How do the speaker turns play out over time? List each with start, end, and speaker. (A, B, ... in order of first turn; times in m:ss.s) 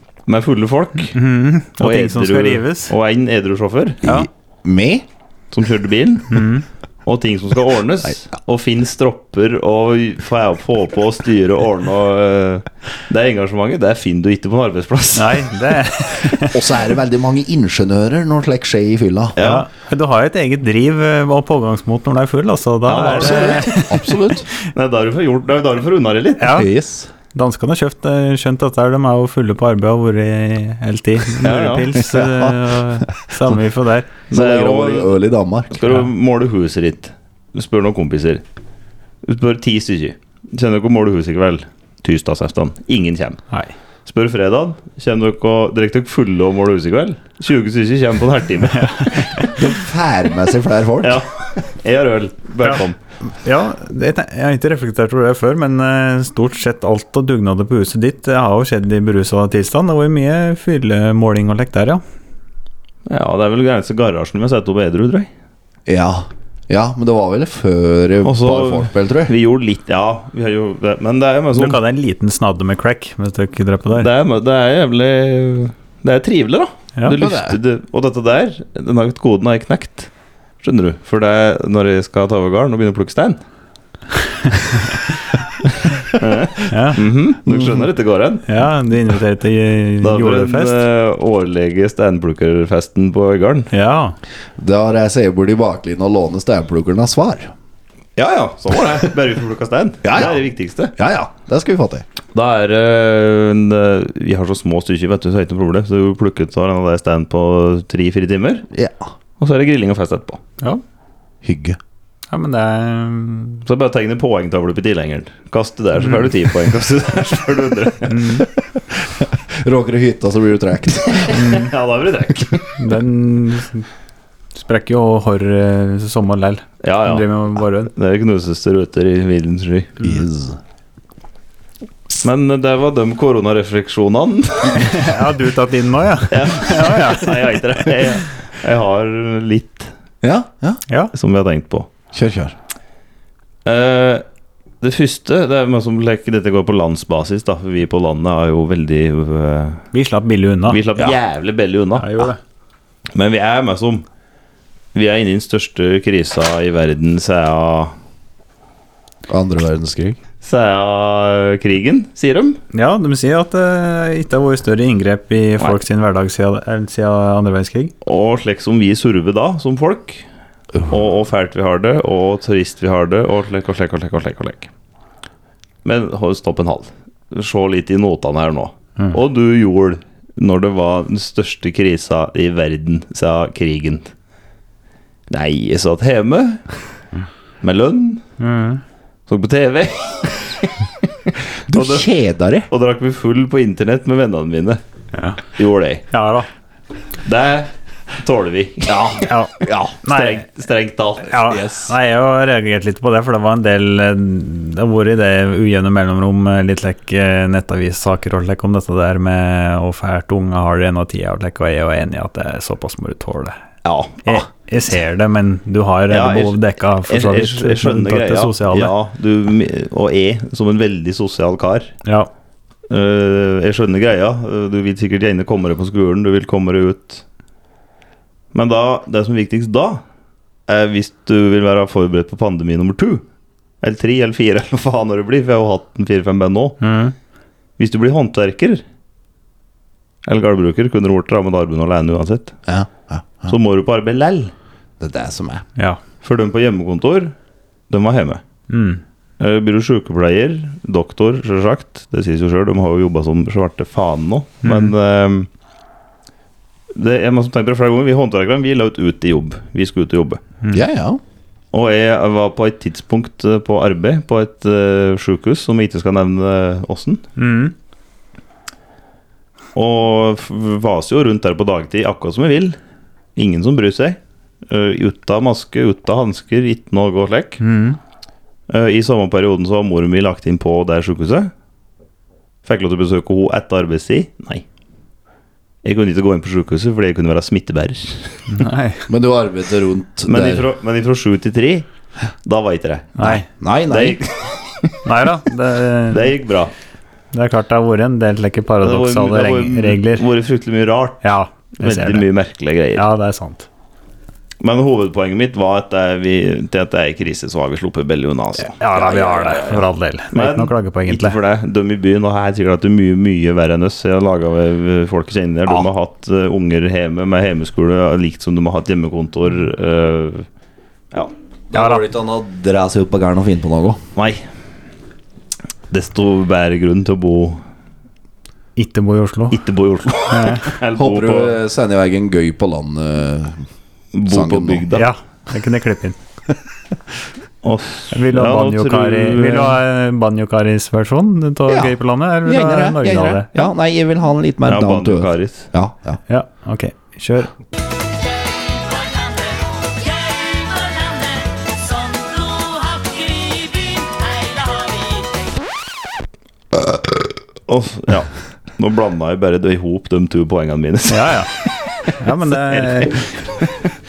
0:00.3-0:01.2 A
0:01.1-0:02.9 B
0:01.8-0:04.0 A
0:04.0-0:05.0 C
0:05.5-0:06.5 A
0:06.3-0:06.7 B
0:07.0-0:15.5 A
0:15.2-0:16.8 B
0:16.4-0:19.4 C
0:19.4-0:19.7 A
0:19.4-0:24.3 B
0:22.9-0:23.8 A
0:23.2-0:24.5 C
0:24.7-0:26.5 A
0:26.4-0:26.7 B
0:26.5-0:27.1 C
0:27.3-0:34.2 B
0:31.4-0:32.0 A
0:32.0-0:32.8 C
0:34.3-0:35.1 A
0:34.3-0:35.8 C
0:35.7-0:38.4 A
0:39.2-0:43.4 A
0:44.1-0:48.9 A
0:48.8-0:49.6 B
0:49.4-0:51.2 C
0:51.0-0:53.0 A
0:53.4-1:02.0 B
1:03.1-1:05.3 A
1:05.9-1:09.3 C
1:08.2-1:11.8 A
1:11.5-1:14.1 B
1:13.9-1:20.1 A
1:17.2-1:17.6 C
1:20.6-1:23.4 A
1:26.1-1:28.4 A
1:26.7-1:27.0 B
1:28.5-1:30.8 B
1:30.0-1:33.7 A
1:33.7-1:34.2 B
1:34.6-1:37.5 C
1:38.2-1:40.9 A
1:40.0-1:42.0 C
1:42.3-1:48.7 A
1:48.7-1:49.0 C
1:49.4-1:50.4 A
1:51.4-1:51.8 C
1:52.3-1:53.6 B
1:53.6-1:58.3 A
1:58.1-1:58.5 B
1:58.9-2:01.4 C
2:01.2-2:02.8 A
2:01.3-2:01.7 B
2:02.8-2:03.9 B
2:04.5-2:07.9 B
2:06.8-2:07.3 A
2:07.9-2:10.0 A
2:10.0-2:10.6 C
2:12.2-2:15.0 A
2:14.7-2:17.5 B
2:16.3-2:19.9 A
2:20.2-2:20.8 C
2:21.1-2:21.9 A
2:22.1-2:22.6 C
2:23.6-2:24.2 A
2:24.8-2:29.8 A
2:29.9-2:30.8 B
2:30.7-2:32.3 A
2:32.0-2:32.4 B
2:33.1-2:34.1 A
2:34.9-2:37.9 A
2:39.3-2:40.2 C
2:40.4-2:42.6 A
2:42.7-2:47.9 B
2:48.0-2:50.2 A
2:50.9-2:54.7 A
2:55.8-3:04.1 A
3:05.3-3:06.6 A
3:07.6-3:08.2 A
3:08.4-3:08.8 B
3:09.3-3:10.7 A
3:11.7-3:12.7 C
3:11.7-3:12.1 A
3:12.7-3:14.8 A
3:15.1-3:15.4 B
3:15.6-3:16.0 A
3:16.1-3:16.5 B
3:17.2-3:19.1 A
3:18.9-3:20.0 C
3:19.3-3:20.5 B
3:20.1-3:21.5 A
3:21.3-3:33.6 B
3:21.5-3:21.9 C
3:33.8-3:34.4 A
3:34.3-3:38.9 B
3:36.1-3:41.9 A
3:42.9-3:47.2 A
3:48.5-3:50.0 A
3:50.7-3:53.2 A
3:53.8-3:56.8 A
3:56.8-3:57.2 B
3:57.8-3:58.8 A
4:00.3-4:02.6 A
4:02.7-4:03.5 C
4:03.5-4:04.5 A
4:05.0-4:05.6 C
4:06.2-4:07.3 A
4:07.9-4:08.4 A
4:08.7-4:09.0 B
4:09.4-4:15.5 A
4:14.6-4:14.9 B
4:16.9-4:20.4 A
4:20.7-4:21.2 C
4:21.7-4:27.2 A
4:27.4-4:27.7 B
4:29.8-4:32.8 A
4:33.4-4:37.6 A
4:37.6-4:38.0 B
4:38.7-4:41.5 A
4:42.6-4:44.6 A
4:45.8-4:48.4 A
4:48.5-4:49.1 B
4:49.1-4:50.6 C
4:50.3-4:51.9 A
4:52.4-4:53.2 A
4:53.2-4:53.5 B
4:53.2-4:54.3 C
4:53.9-4:55.0 A
4:55.0-4:56.4 B
4:56.1-4:56.7 A
4:57.3-5:00.2 B
4:58.8-5:03.1 A
5:01.2-5:02.3 B
5:03.0-5:03.7 B
5:04.6-5:09.8 A
5:08.7-5:11.4 B
5:10.3-5:20.5 A
5:21.7-5:24.0 C
5:21.7-5:22.0 B
5:24.2-5:24.4 A
5:25.9-5:27.6 A
5:28.8-5:29.6 B
5:29.5-5:31.6 A
5:30.3-5:30.8 B
5:31.0-5:33.7 C
5:34.1-5:35.1 A
5:34.3-5:34.9 C
5:34.9-5:36.2 B
5:37.6-5:39.8 A
5:38.1-5:43.6 B
5:41.7-5:46.2 C
5:44.7-5:45.7 A
5:46.3-5:47.5 B
5:50.9-5:51.1 B
5:57.7-6:03.8 A
6:01.1-6:01.5 B
6:02.1-6:03.3 B